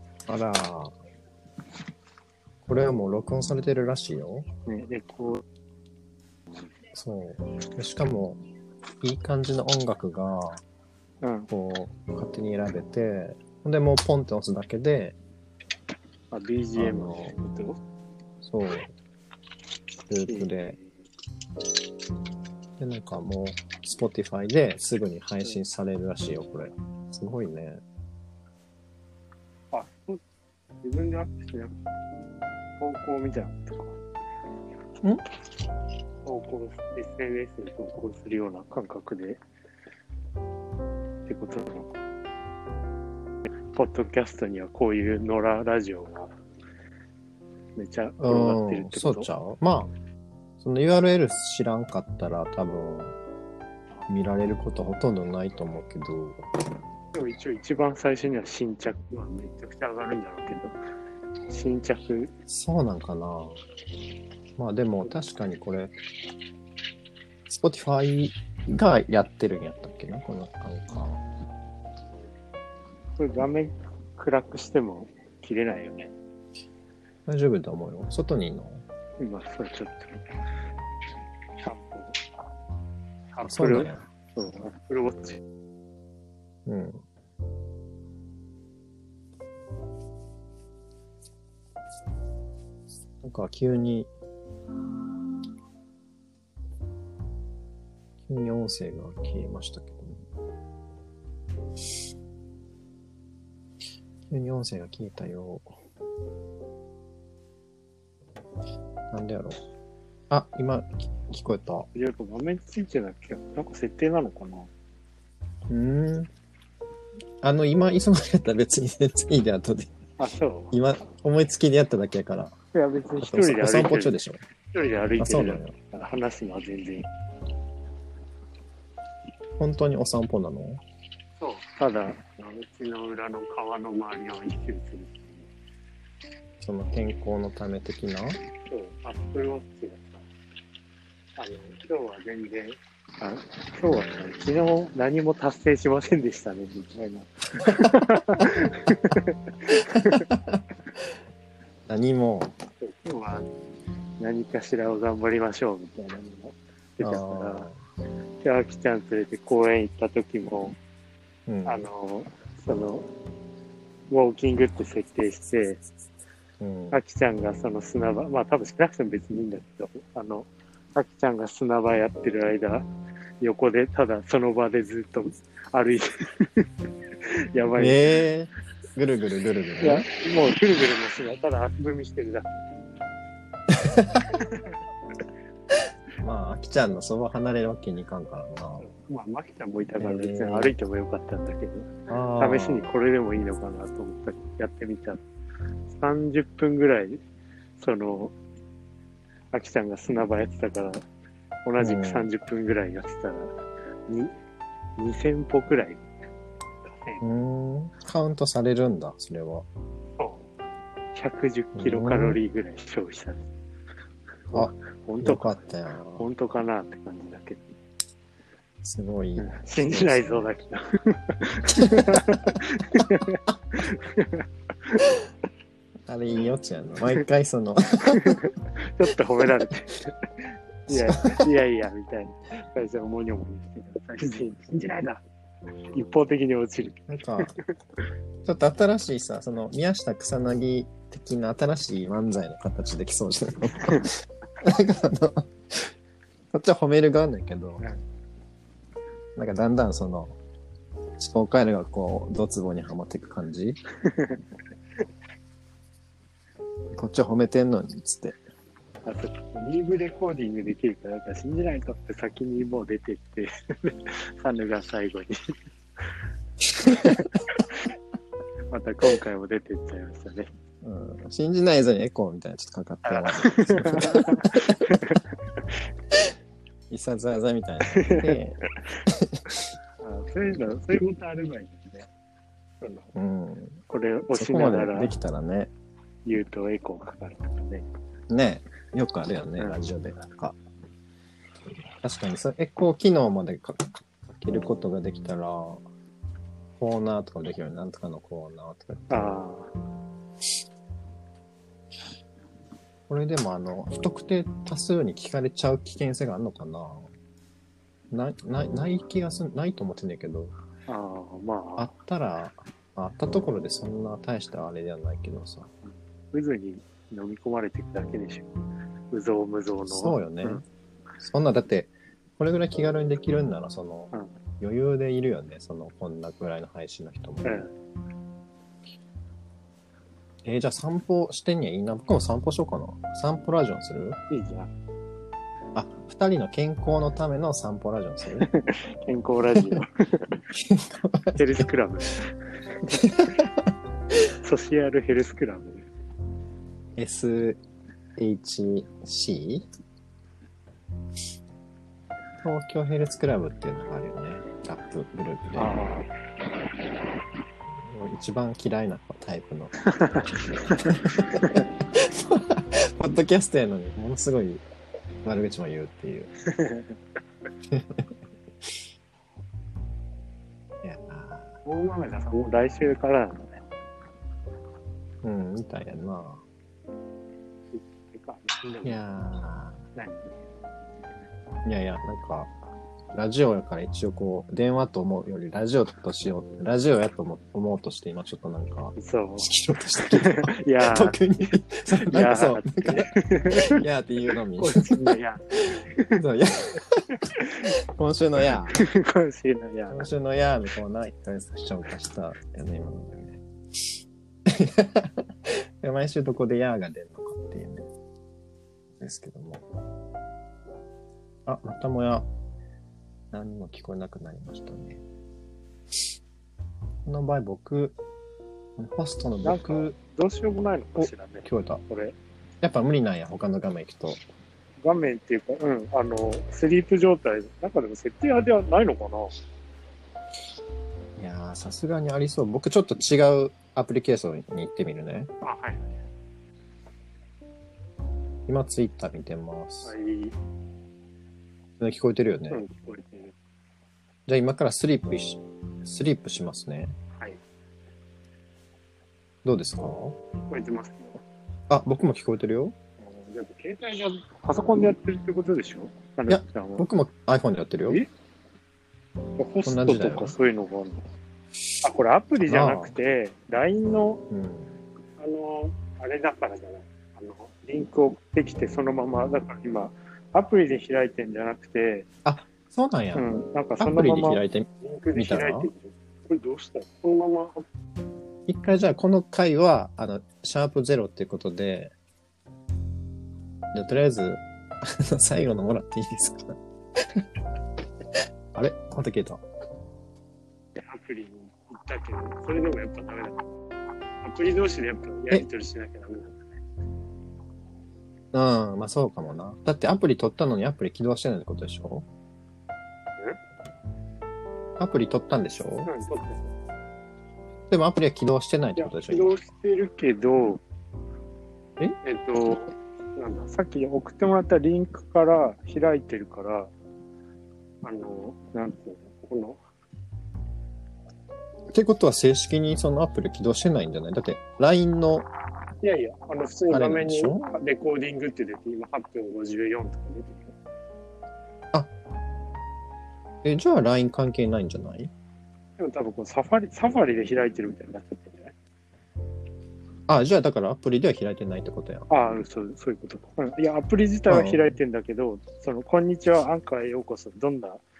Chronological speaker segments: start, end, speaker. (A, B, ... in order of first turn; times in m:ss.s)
0:00.3-0:00.9 A
0:02.6-0:04.5 A
0:04.6-0:05.4 B
0:06.9-0:08.4 A
0:09.0-0:10.6 A
0:11.2-0:11.5 B
0:11.5-0:15.2 A
0:16.3-0:17.8 B
0:16.7-0:17.3 A
0:18.4-0:18.9 A
0:20.1-0:20.8 A
0:20.2-0:21.0 B
0:22.8-0:27.8 A
0:29.7-0:30.2 B
0:30.8-0:31.7 B
0:32.8-0:34.0 B
0:36.2-0:39.4 B
0:41.3-0:41.9 B
0:43.7-0:46.3 B
0:47.8-0:49.3 B
0:48.2-0:49.9 A
0:50.6-0:53.2 A
0:54.1-0:56.4 A
0:57.1-1:00.8 B
1:01.5-1:02.3 B
1:02.5-1:03.6 A
1:04.6-1:05.9 A
1:07.5-1:11.2 A
1:13.2-1:16.1 B
1:17.3-1:18.8 A
1:19.2-1:20.2 B
1:21.6-1:22.2 B
1:23.3-1:25.4 B
1:23.4-1:24.0 A
1:26.6-1:27.0 A
1:33.2-1:34.1 A
1:38.3-1:40.2 A
1:44.3-1:45.7 A
1:49.1-1:49.6 A
1:50.3-1:51.9 A
1:51.9-1:54.7 B
1:55.7-1:56.3 A
1:57.4-1:59.9 A
2:00.2-2:00.7 B
2:00.7-2:02.5 A
2:02.7-2:04.2 B
2:03.2-2:04.4 A
2:04.7-2:07.1 B
2:05.2-2:05.7 A
2:09.6-2:10.8 A
2:11.4-2:15.5 B
2:16.6-2:18.4 A
2:18.7-2:20.1 B
2:21.4-2:30.3 B
2:30.1-2:30.6 A
2:31.9-2:32.5 A
2:32.8-2:33.5 B
2:34.2-2:37.7 B
2:37.0-2:37.8 A
2:38.4-2:40.8 B
2:41.5-2:41.8 A
2:41.6-2:43.1 B
2:44.1-2:45.8 B
2:46.6-2:47.0 A
2:46.9-2:52.9 B
2:53.4-2:56.6 B
2:57.5-2:58.2 B
2:57.8-3:00.1 A
2:59.8-3:02.5 B
3:03.8-3:04.2 A
3:04.4-3:04.8 B
3:06.2-3:08.9 A
3:08.8-3:15.2 B
3:10.0-3:10.7 A
3:12.1-3:12.9 A
3:15.9-3:17.2 B
3:17.8-3:18.3 B
3:19.5-3:21.0 B
3:21.6-3:23.5 B
3:21.8-3:22.3 A
3:24.1-3:24.3 B
3:25.0-3:26.0 B
3:27.2-3:29.6 A
3:30.2-3:30.5 B
3:31.1-3:33.4 B
3:31.7-3:32.4 A
3:34.5-3:35.5 B
3:34.5-3:36.2 A
3:36.2-3:37.6 B
3:38.8-3:40.4 A
3:39.4-3:45.2 B
3:46.1-3:48.4 A
3:48.2-3:50.2 B
3:50.9-3:55.2 B
3:50.9-3:51.5 A
3:55.9-3:57.6 B
3:57.1-3:57.5 A
3:58.4-4:05.9 A
4:06.5-4:07.8 A
4:09.4-4:10.3 A
4:11.2-4:13.8 A
4:14.1-4:14.4 B
4:16.9-4:18.4 A
4:19.0-4:25.5 B
4:26.8-4:27.8 B
4:26.9-4:27.2 A
4:28.7-4:30.5 B
4:30.8-4:34.9 A
4:33.0-4:35.7 B
4:36.9-4:39.4 A
4:37.9-4:38.4 B
4:40.0-4:42.1 B
4:42.8-4:43.1 B
4:43.1-4:43.8 A
4:43.9-4:45.2 B
4:44.3-4:45.7 A
4:46.2-4:47.8 B
4:48.3-4:50.6 A
4:52.0-4:55.8 A
4:56.8-4:59.4 A
4:59.1-4:59.7 B
5:03.1-5:07.1 A
5:08.1-5:10.5 A
5:10.9-5:11.9 B
5:11.8-5:15.7 A
5:16.3-5:18.5 B
5:19.1-5:20.6 B
5:19.9-5:20.6 A
5:21.2-5:27.6 A
5:27.4-5:27.7 B
5:30.4-5:34.2 A
5:34.3-5:34.7 B
5:35.7-5:38.5 A
5:38.4-5:40.4 B
5:39.5-5:39.8 A
5:40.5-5:41.7 A
5:41.3-5:42.3 B
5:42.9-5:43.7 A
5:44.4-5:45.9 B
5:47.0-5:47.6 A
5:48.2-5:49.6 A
5:52.4-5:55.7 A
5:55.6-5:56.1 B
5:57.8-5:59.8 A
5:59.9-6:00.8 B
6:00.8-6:04.6 A
6:05.2-6:06.3 A
6:06.5-6:06.9 B
6:07.7-6:08.1 A
6:10.8-6:11.5 A
6:11.6-6:13.6 B
6:15.2-6:16.4 A
6:17.7-6:19.0 B
6:18.8-6:19.8 A
6:20.0-6:20.3 B
6:21.6-6:22.5 A
6:23.1-6:33.1 A
6:29.0-6:31.2 B
6:32.0-6:33.6 B
6:33.7-6:35.2 A
6:34.6-6:36.2 B
6:36.2-6:37.1 A
6:37.2-6:37.6 B
6:37.9-6:38.8 A
6:38.7-6:40.1 B
6:39.9-6:43.4 A
6:44.5-6:47.9 A
6:49.0-6:49.6 A
6:51.4-6:52.3 A
6:53.3-6:55.0 A
6:57.0-6:58.0 A
6:58.8-7:00.0 A
6:59.4-7:02.2 B
7:01.0-7:01.8 A
7:02.6-7:04.2 A
7:04.8-7:09.3 B
7:11.2-7:15.3 A
7:15.4-7:16.0 B
7:18.5-7:19.9 A
7:19.8-7:20.3 B
7:21.8-7:22.6 A
7:22.5-7:23.3 B
7:24.3-7:27.0 A
7:29.4-7:30.2 A
7:30.5-7:31.2 B
7:31.7-7:32.7 A
7:33.0-7:36.8 B
7:36.3-7:38.0 A
7:39.4-7:41.0 B
7:39.6-7:40.4 A
7:41.8-7:44.2 B
7:42.4-7:42.9 A
7:44.3-7:44.8 A
7:45.2-7:52.0 B
7:52.2-7:55.7 A
7:53.1-7:57.6 B
7:58.5-8:01.9 A
8:03.7-8:06.6 A
8:08.5-8:09.4 A
8:10.8-8:13.5 B
8:14.2-8:16.4 B
8:18.3-8:22.1 A
8:24.8-8:25.9 A
8:25.8-8:26.5 B
8:27.7-8:29.4 A
8:28.8-8:30.6 B
8:32.0-8:36.7 B
8:37.8-8:39.6 B
8:41.7-8:45.3 A
8:45.8-8:50.5 B
8:46.7-8:47.5 A
8:53.4-8:55.1 A
8:55.8-8:58.5 B
9:00.1-9:02.1 A
9:02.1-9:07.8 B
9:04.3-9:04.7 A